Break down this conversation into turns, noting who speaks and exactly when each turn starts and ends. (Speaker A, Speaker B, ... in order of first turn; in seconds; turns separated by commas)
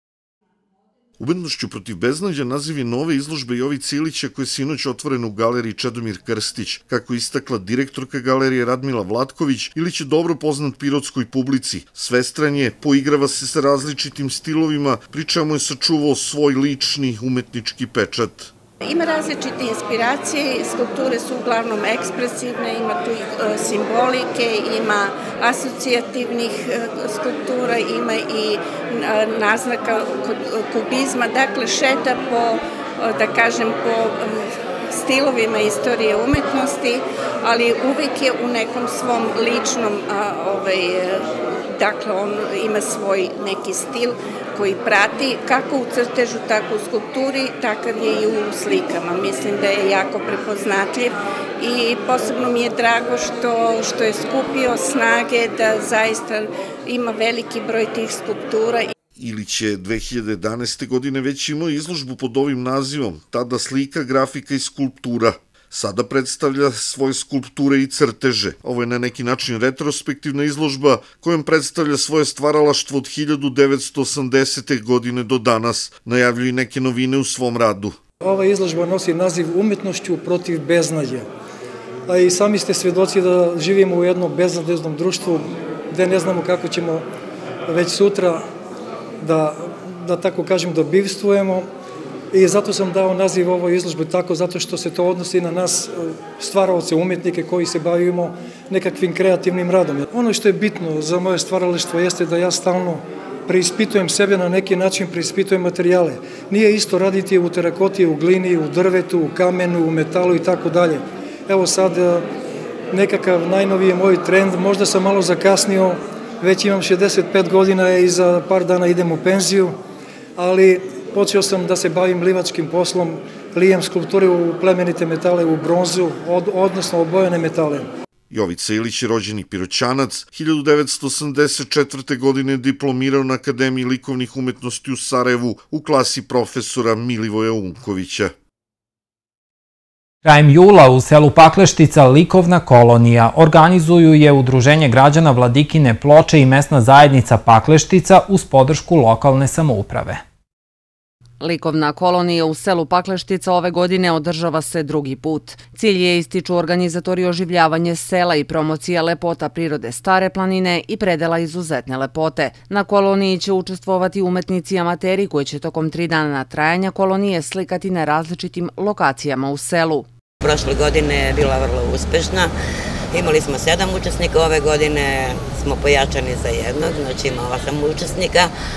Speaker A: 1.2-18.5, Speaker B: 18.8-58.9, Speaker A: 59.2-78.0, Speaker C: 78.2-81.3, Speaker C: 82.1-87.1, Speaker C: 87.7-88.5, Speaker C: 89.2-91.7, Speaker C: 92.3-112.3, Speaker C: 112.9-119.8, Speaker C: 120.4-127.9, Speaker A: 128.3-138.3, Speaker D: 140.2-150.2, Speaker E: 151.4-170.1, Speaker F: 170.4-172.5, Speaker F: 173.1-178.5